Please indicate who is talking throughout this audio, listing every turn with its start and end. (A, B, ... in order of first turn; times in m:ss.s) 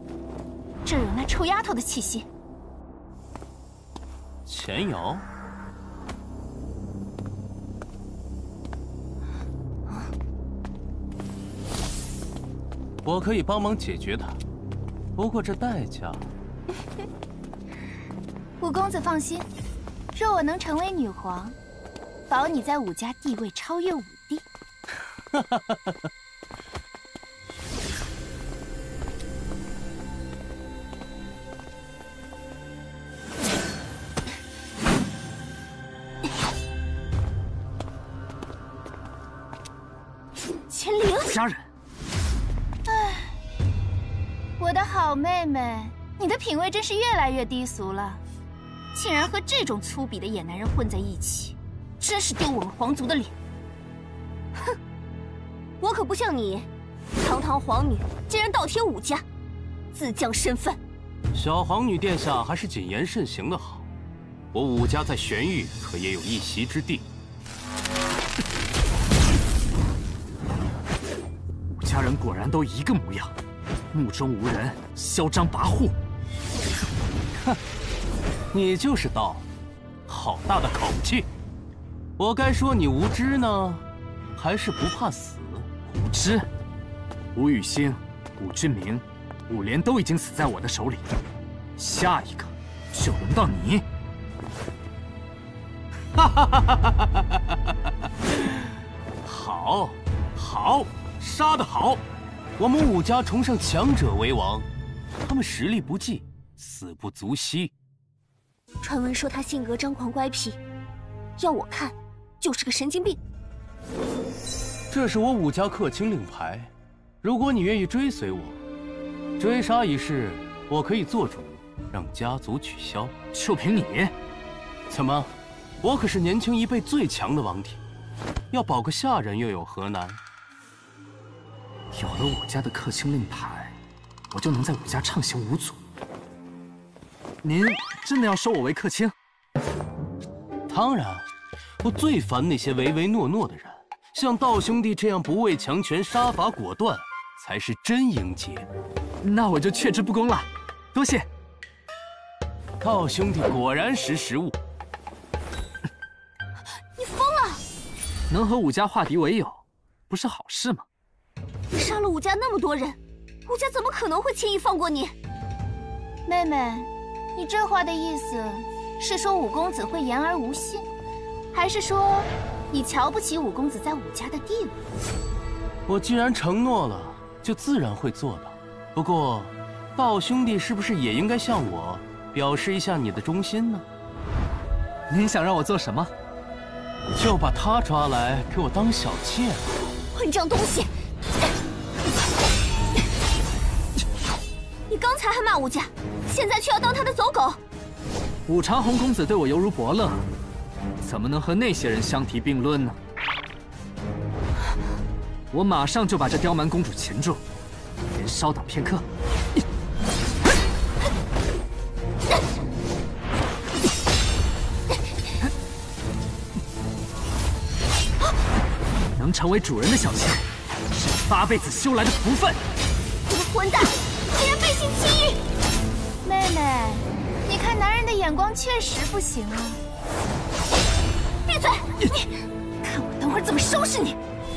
0:00.8-0:02.3 A
0:04.5-0:05.3 B
0:13.0-0:14.4 B
0:15.2-0:16.3 B
0:18.6-0:19.5 A
0:20.1-0:21.6 A
0:22.3-0:24.5 A
0:40.7-0:41.4 C
0:41.3-0:41.6 D
0:42.9-0:43.3 A
0:44.6-0:48.2 A
0:48.9-0:53.3 A
0:55.8-0:56.7 C
0:57.2-0:59.2 C
0:59.9-1:00.8 C
1:01.3-1:03.9 B
1:04.5-1:07.0 B
1:11.7-1:13.3 D
1:13.9-1:16.0 D
1:18.5-1:19.4 B
1:20.1-1:21.3 B
1:22.2-1:23.8 B
1:24.4-1:25.7 B
1:25.9-1:26.5 D
1:27.4-1:31.1 D
1:31.8-1:33.8 D
1:36.2-1:37.1 B
1:39.2-1:42.0 B
1:42.6-1:44.7 B
1:45.2-1:47.7 B
1:48.8-1:50.6 C
1:51.4-1:53.2 C
1:54.9-1:56.7 B
1:57.2-1:58.6 B
1:59.4-2:03.1 B
2:03.3-2:04.1 D
2:04.9-2:07.8 B
2:08.5-2:10.2 B
2:11.9-2:13.8 D
2:14.3-2:15.8 D
2:17.4-2:19.1 D
2:20.7-2:21.3 B
2:21.8-2:28.7 B
2:29.2-2:31.3 D
2:32.8-2:34.6 B
2:37.0-2:37.6 C
2:38.3-2:40.9 D
2:41.7-2:45.1 C
2:46.3-2:50.9 A
2:51.5-2:54.8 A
2:55.9-3:03.8 B
3:05.1-3:06.1 D
3:07.1-3:09.8 B
3:10.1-3:10.9 C
3:14.9-3:17.6 C
3:18.5-3:20.2 D
3:21.0-3:23.0 D
3:25.5-3:27.4 D
3:28.1-3:29.0 D
3:39.2-3:40.4 D
3:41.2-3:42.6 D
3:43.3-3:45.4 C
3:46.2-3:49.8 A
3:51.5-3:51.9 C
3:52.8-3:54.2 A